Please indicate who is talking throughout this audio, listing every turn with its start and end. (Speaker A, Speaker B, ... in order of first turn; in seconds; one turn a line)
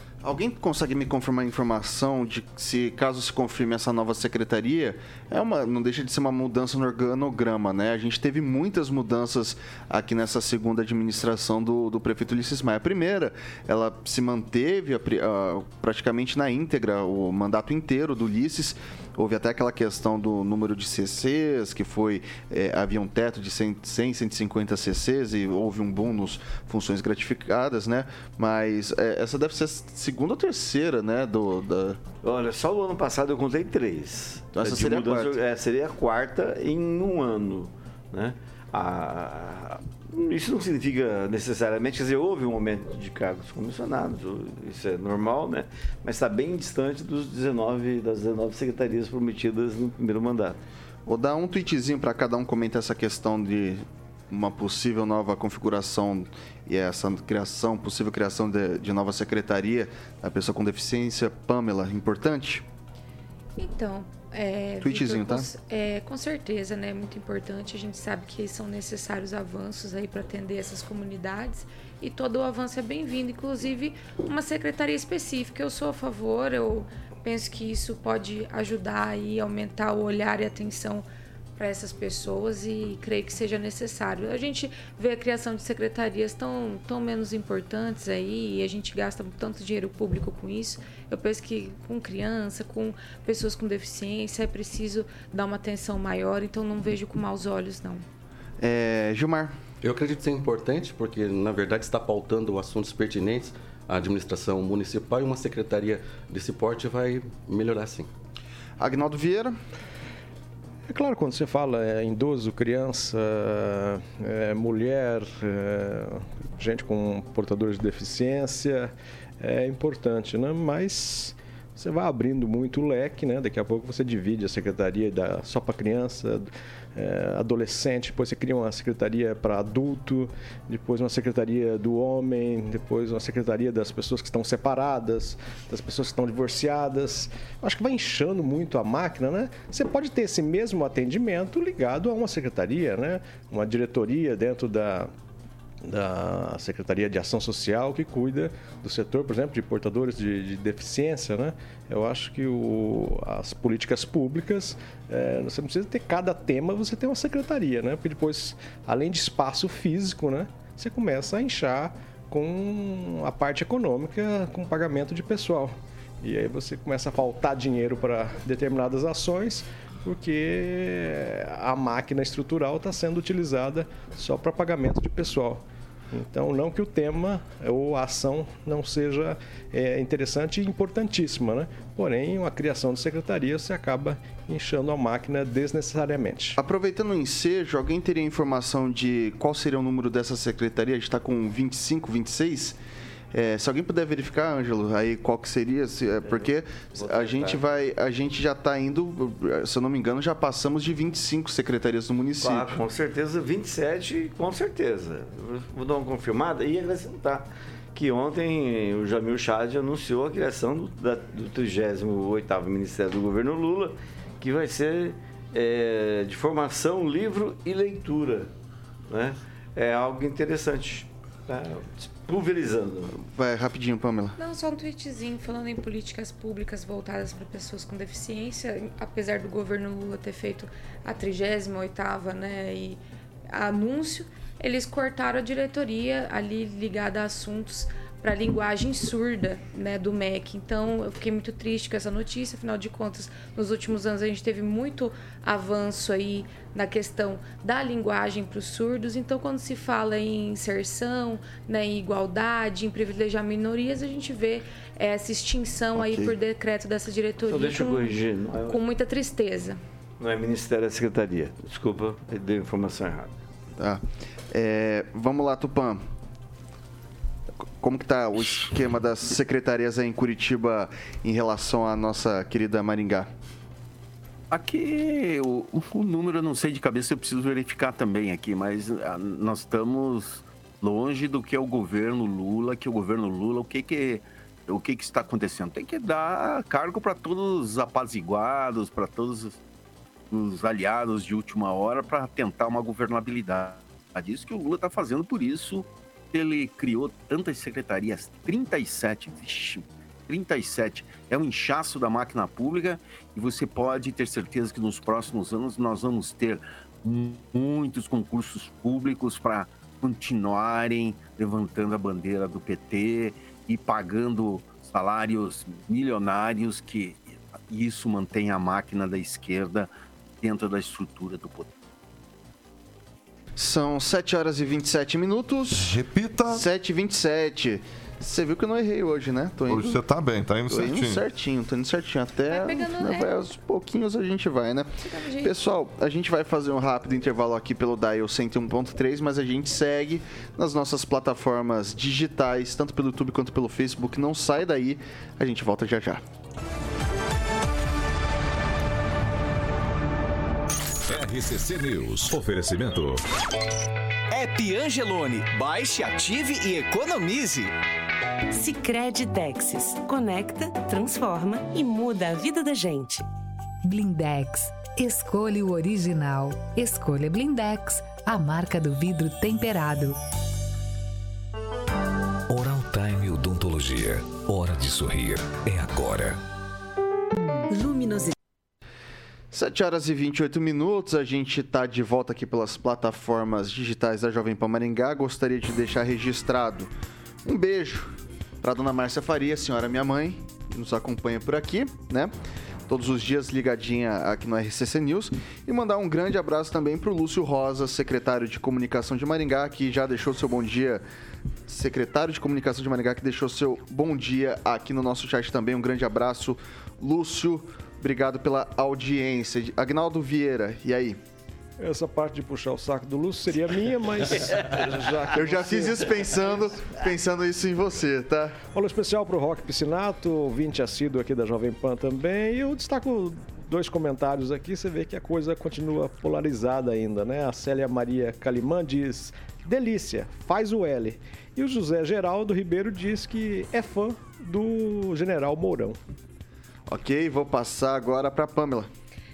Speaker A: 0.2-32.0
Speaker B: 32.2-50.6
Speaker A: 34.5-35.4
Speaker A: 51.0-62.6
Speaker C: 63.6-81.0
Speaker A: 64.8-65.5
Speaker C: 81.6-98.0
Speaker A: 98.6-99.5
Speaker D: 99.8-108.1
Speaker A: 108.8-109.5
Speaker E: 110.9-145.1
Speaker E: 145.8-186.6
Speaker A: 186.6-192.8
Speaker A: 193.3-202.8
Speaker B: 196.2-197.6
Speaker B: 202.4-218.5
Speaker B: 219.1-223.2
Speaker A: 223.2-224.3
Speaker C: 224.4-259.8
Speaker A: 255.9-256.3
Speaker B: 257.5-258.8
Speaker B: 260.2-263.3
Speaker A: 263.8-266.0
Speaker A: 267.8-273.3
Speaker F: 274.5-289.6
Speaker F: 290.3-321.7
Speaker A: 323.6-326.0
Speaker G: 325.8-326.6
Speaker A: 326.5-330.0
Speaker G: 329.7-331.2
Speaker A: 330.7-334.9
Speaker C: 332.5-333.4
Speaker C: 335.0-335.5
Speaker A: 335.4-346.2
Speaker H: 351.1-353.2
Speaker I: 354.3-357.7
Speaker J: 358.5-363.2
Speaker K: 363.8-370.2
Speaker H: 372.5-376.4
Speaker K: 377.7-378.3
Speaker A: 379.5-386.9
Speaker A: 387.4-392.3
Speaker A: 392.9-401.0
Speaker A: 401.7-411.2
Speaker E: 411.8-416.6
Speaker A: 415.3-418.6
Speaker E: 418.7-436.0
Speaker A: 436.9-438.9